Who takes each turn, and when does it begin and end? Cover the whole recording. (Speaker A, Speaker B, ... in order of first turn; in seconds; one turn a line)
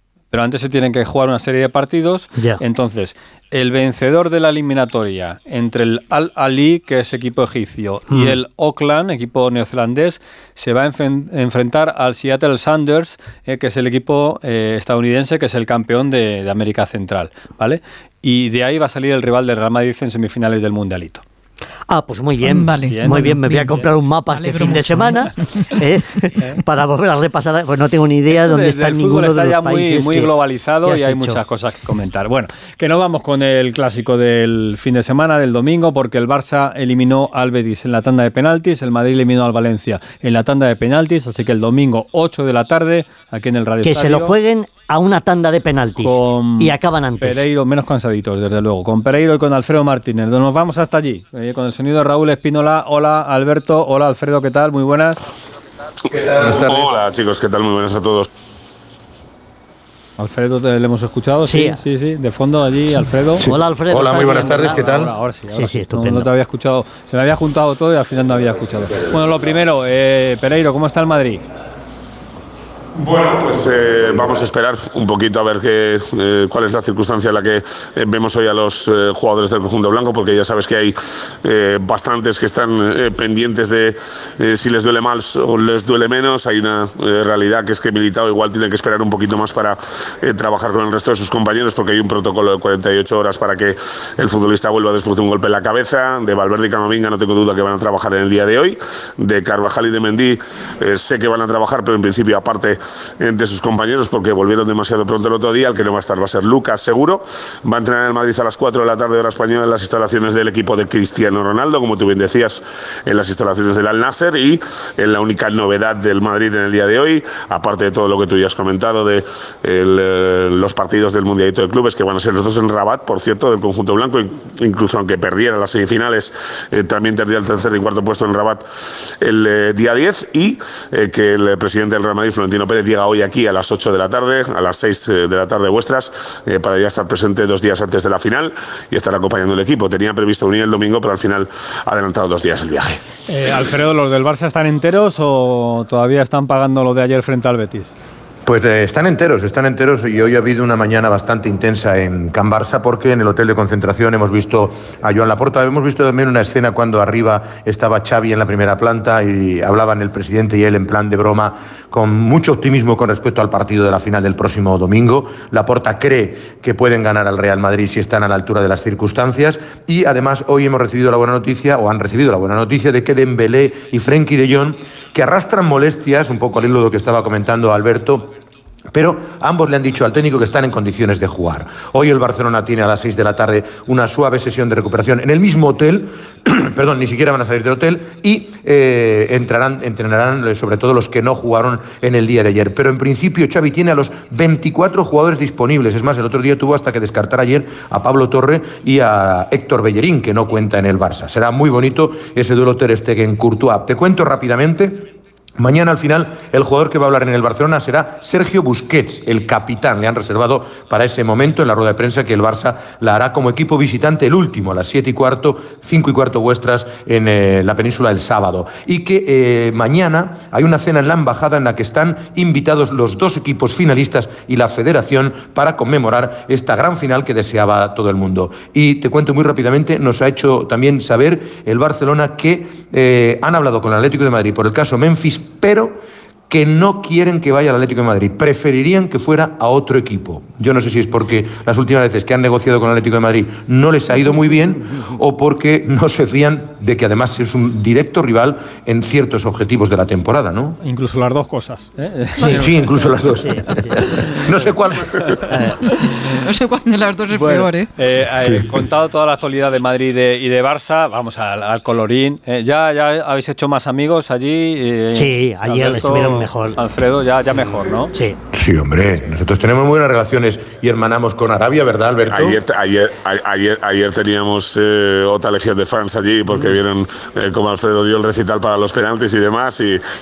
Speaker A: 0.3-21.2
Speaker B: 8.1-8.4
Speaker B: 21.9-30.3
Speaker C: 22.4-25.3
Speaker A: 22.8-23.9
Speaker A: 28.3-44.3
Speaker B: 30.8-31.4
Speaker B: 43.8-47.4
Speaker A: 46.0-55.2
Speaker D: 56.1-58.3
Speaker E: 56.4-56.9
Speaker A: 60.2-63.5
Speaker B: 61.4-61.8
Speaker E: 63.4-65.1
Speaker B: 63.4-65.0
Speaker A: 64.1-71.4
Speaker B: 65.5-66.3
Speaker D: 73.0-128.6
Speaker D: 129.2-143.0
Speaker A: 143.3-147.9
Speaker E: 148.4-178.3
Speaker E: 178.9-236.0
Speaker E: 236.5-250.8
Speaker A: 250.8-254.7
Speaker E: 252.4-255.3
Speaker A: 255.5-255.9
Speaker C: 256.1-257.9
Speaker A: 257.3-268.1
Speaker E: 258.4-258.7
Speaker B: 265.1-266.8
Speaker E: 268.5-272.6
Speaker D: 272.3-280.0